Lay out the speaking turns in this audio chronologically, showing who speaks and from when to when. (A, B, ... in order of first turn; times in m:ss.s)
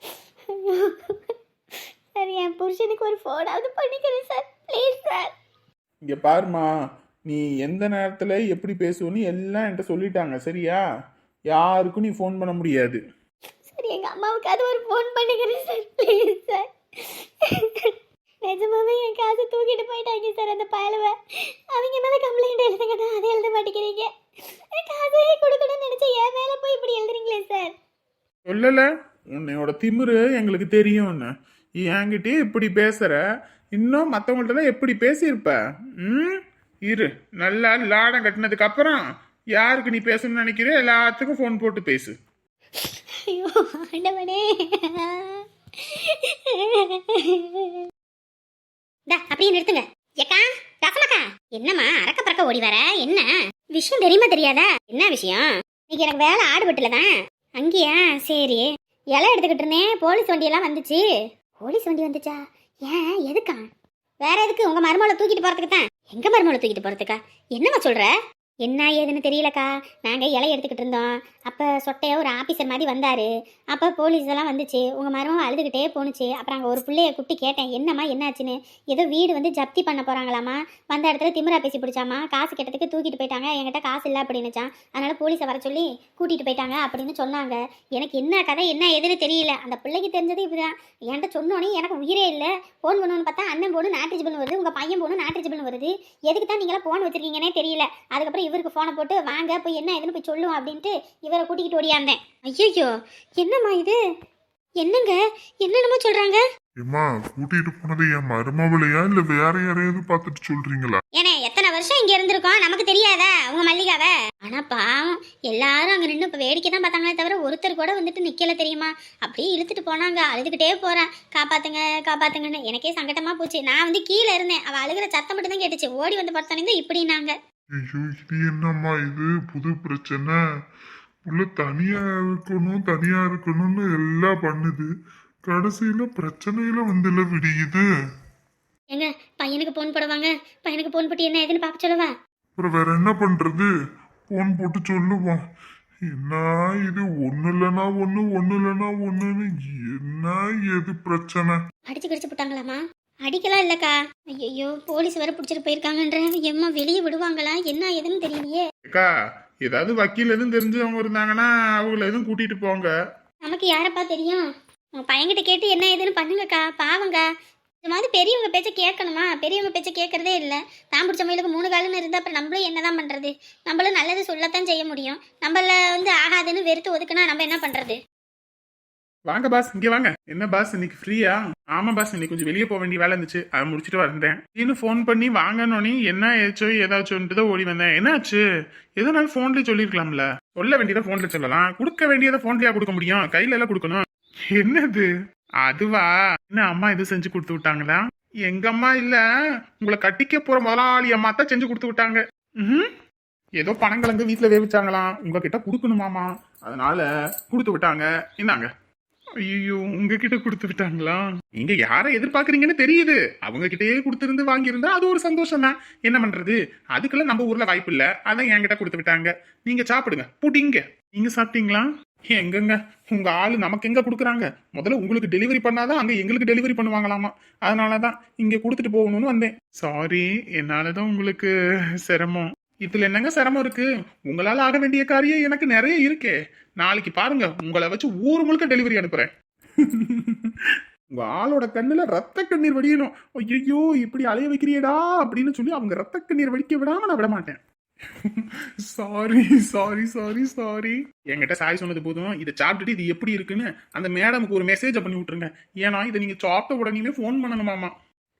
0:00.5-0:01.2 A
0:02.1-0:05.3 A
0:06.0-0:06.7 B
0:07.2-0:10.8 B
0:11.5-0:13.0 B
0:13.7-0:17.9 A
0:18.4-0:21.1 A
0:21.7-0:24.1 A
0:24.7-0:27.7 A
0:28.5-0:31.3 B
0:31.8-0:33.2 B
0:33.7-0:39.0 B
0:39.6-0:42.1 B
0:43.2-0:47.8 A
0:49.1-1:01.0 A
1:01.6-1:03.7 A
1:04.2-1:08.1 A
1:08.6-1:44.0 A
1:44.8-1:46.4 A
1:46.8-1:51.0 C
1:51.2-2:07.3 A
2:07.8-2:10.4 C
2:11.3-2:14.8 C
2:15.5-2:17.8 C
2:18.9-2:22.1 A
2:22.6-2:23.7 C
2:24.3-2:25.4 C
2:26.1-2:31.5 C
2:31.9-2:38.6 A
2:39.6-2:42.9 B
2:43.4-2:44.4 A
2:45.0-2:47.2 A
2:47.8-2:58.0 A
2:59.3-3:08.4 B
3:09.0-3:14.0 B
3:14.5-3:15.1 B
3:15.6-3:19.2 B
3:19.8-3:22.9 B
3:23.6-3:28.7 B
3:29.4-3:51.5 B
3:52.0-4:00.6 B
4:01.1-4:07.6 B
4:08.3-4:17.9 B